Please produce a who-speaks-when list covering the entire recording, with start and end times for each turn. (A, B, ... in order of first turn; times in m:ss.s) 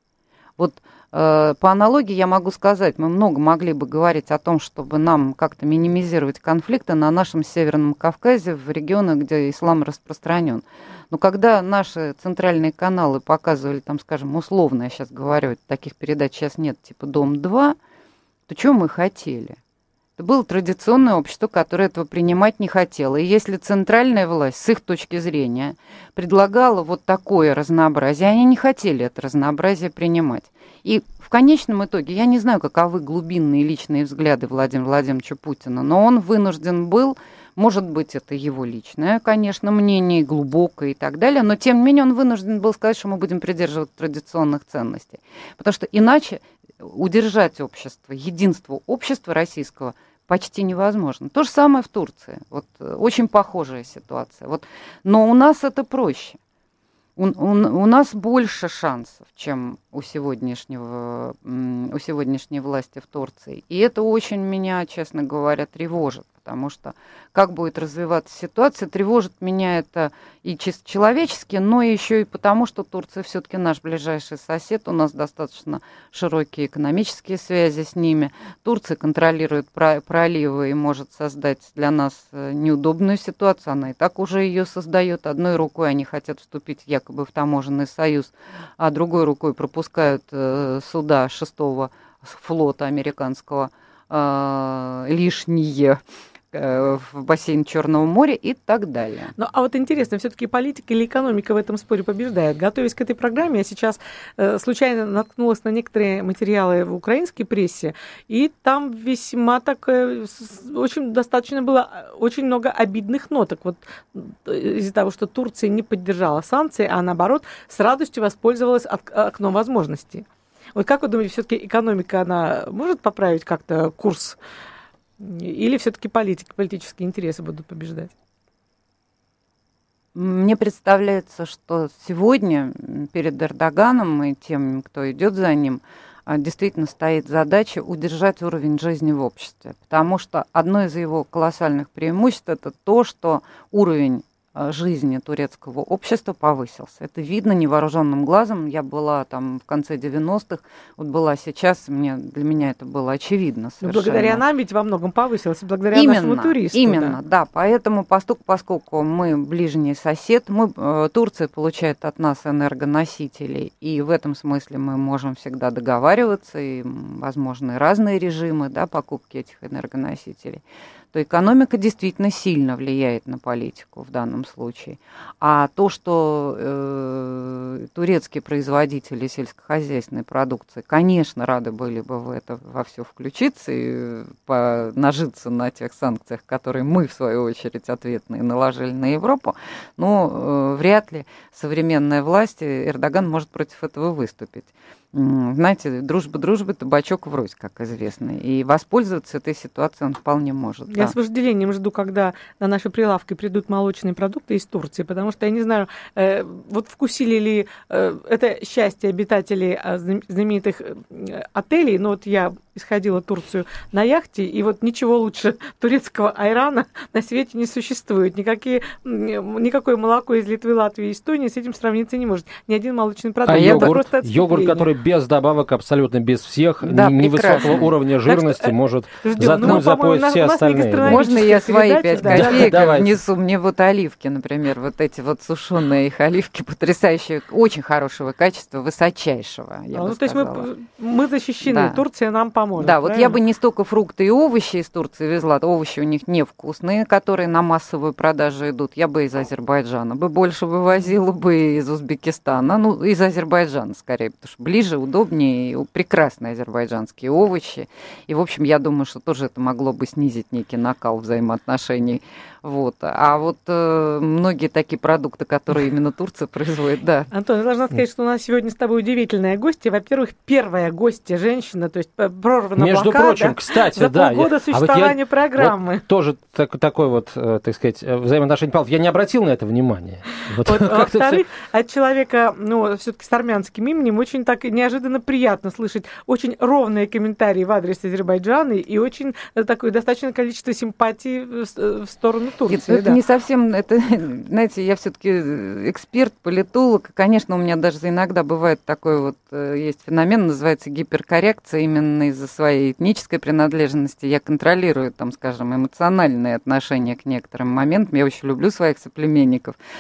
0:00.6-0:17.8 A
0:18.5-0:19.6 A
0:20.2-0:56.4 A
0:57.2-1:36.0 A
1:36.5-1:39.4 A
1:39.4-2:04.4 B
2:05.2-2:08.1 B
2:10.2-2:34.4 A
2:33.8-2:37.2 B
2:35.9-3:21.1 A
3:20.9-3:44.9 B
3:43.5-3:51.3 C
3:43.5-3:44.0 A
3:46.8-3:48.0 A
3:47.6-3:52.8 B
3:49.5-3:49.8 A
3:51.1-4:00.7 A
3:52.2-3:53.2 C
3:59.9-4:03.4 B
4:01.6-4:02.0 A
4:02.8-4:27.3 A
4:27.3-4:36.0 B
4:32.8-4:41.4 C
4:40.6-4:53.2 B
4:52.7-5:09.8 A